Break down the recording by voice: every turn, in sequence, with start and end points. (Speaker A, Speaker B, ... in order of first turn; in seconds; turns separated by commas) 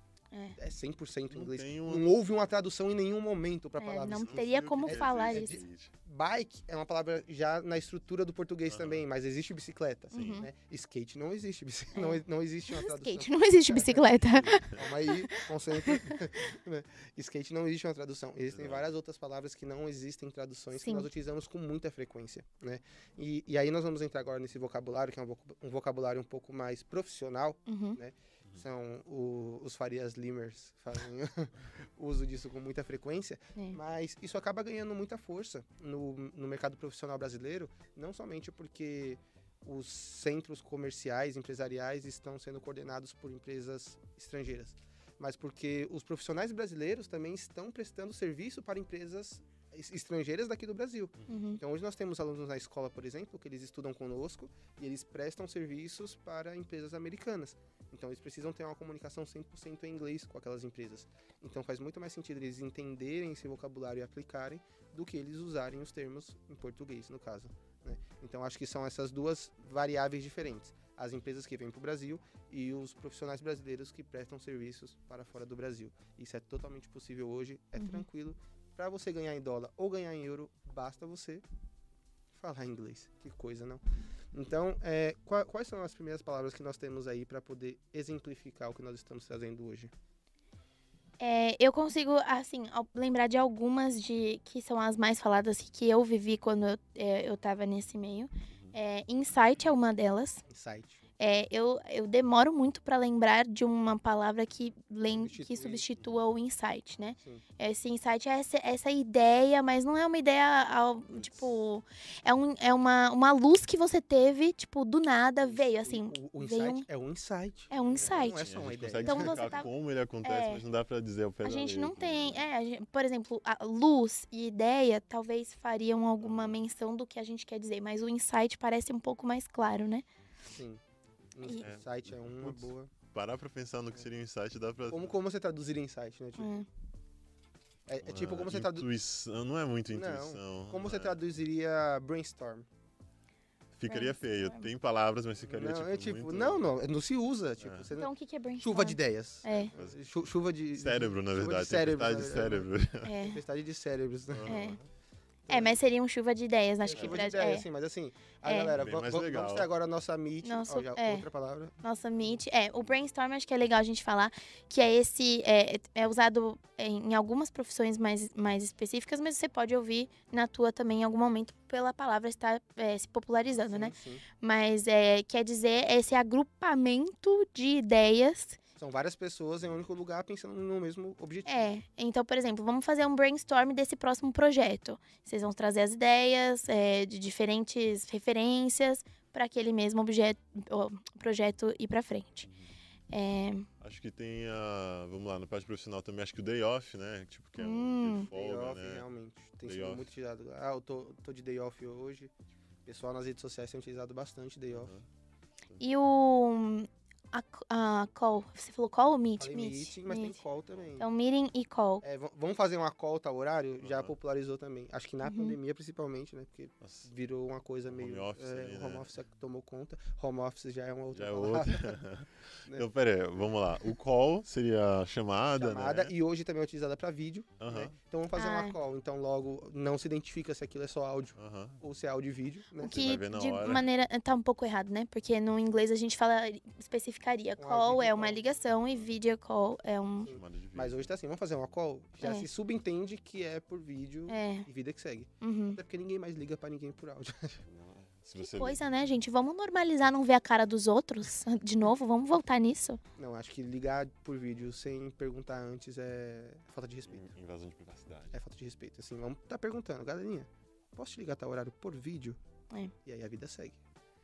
Speaker A: 0.6-81.4, Speaker B: 1.3-2.1, Speaker C: 3.8-5.6, Speaker B: 4.1-5.9, Speaker B: 8.7-9.1, Speaker B: 10.1-10.5, Speaker C: 10.1-10.5, Speaker C: 11.9-16.2, Speaker B: 14.5-14.9, Speaker B: 18.5-18.9, Speaker C: 20.8-21.1, Speaker C: 27.7-28.0, Speaker C: 51.3-51.6, Speaker C: 77.8-78.1, Speaker A: 82.3-83.8, Speaker A: 84.3-89.9, Speaker C: 91.2-100.4, Speaker A: 100.5-101.0, Speaker C: 101.2-116.8, Speaker A: 105.1-105.9, Speaker A: 107.2-107.4, Speaker B: 111.1-111.5, Speaker A: 115.4-119.7, Speaker C: 117.7-118.5, Speaker B: 118.0-122.5, Speaker C: 119.0-119.7, Speaker C: 120.2-120.6, Speaker C: 121.4-130.1, Speaker B: 126.2-126.6, Speaker A: 130.5-130.8, Speaker A: 131.3-132.9, Speaker B: 131.6-135.2, Speaker A: 134.9-136.5, Speaker C: 136.4-136.7, Speaker A: 137.9-138.9, Speaker B: 138.0-141.2, Speaker A: 139.9-142.7, Speaker B: 143.7-146.7, Speaker C: 143.9-144.7, Speaker A: 145.4-152.7, Speaker B: 147.6-147.9, Speaker C: 147.9-149.7, Speaker B: 150.8-153.1, Speaker C: 153.0-153.4, Speaker A: 153.2-154.7, Speaker B: 154.3-154.8, Speaker C: 154.5-154.8, Speaker A: 155.5-155.8, Speaker C: 155.5-157.7, Speaker A: 156.8-161.8, Speaker B: 157.0-157.2, Speaker C: 158.4-158.7, Speaker B: 158.7-159.7, Speaker C: 160.4-161.3, Speaker C: 161.8-178.6, Speaker A: 173.5-174.2, Speaker A: 178.8-181.7, Speaker C: 181.5-192.5, Speaker B: 192.4-192.7, Speaker C: 193.1-193.7, Speaker B: 193.8-199.1, Speaker C: 197.6-198.3, Speaker A: 198.3-202.3, Speaker B: 199.6-200.1, Speaker A: 202.9-204.9, Speaker B: 204.7-205.1, Speaker C: 205.8-210.4, Speaker A: 209.4-211.1, Speaker C: 211.0-212.0, Speaker A: 212.0-222.0, Speaker B: 213.8-214.1, Speaker C: 215.2-215.6, Speaker B: 216.8-217.1, Speaker B: 217.9-219.1, Speaker B: 221.1-226.2, Speaker A: 225.6-233.1, Speaker B: 227.6-227.9, Speaker C: 228.3-228.8, Speaker B: 231.4-231.8, Speaker C: 232.8-240.3, Speaker B: 232.8-233.8, Speaker A: 237.6-238.5, Speaker A: 240.2-247.6, Speaker B: 240.2-241.1, Speaker C: 242.2-242.5, Speaker C: 244.3-244.7, Speaker C: 245.4-245.8, Speaker B: 247.7-249.2, Speaker C: 248.4-253.0, Speaker A: 253.2-257.2, Speaker B: 257.1-258.3, Speaker A: 258.3-262.4, Speaker A: 263.1-263.8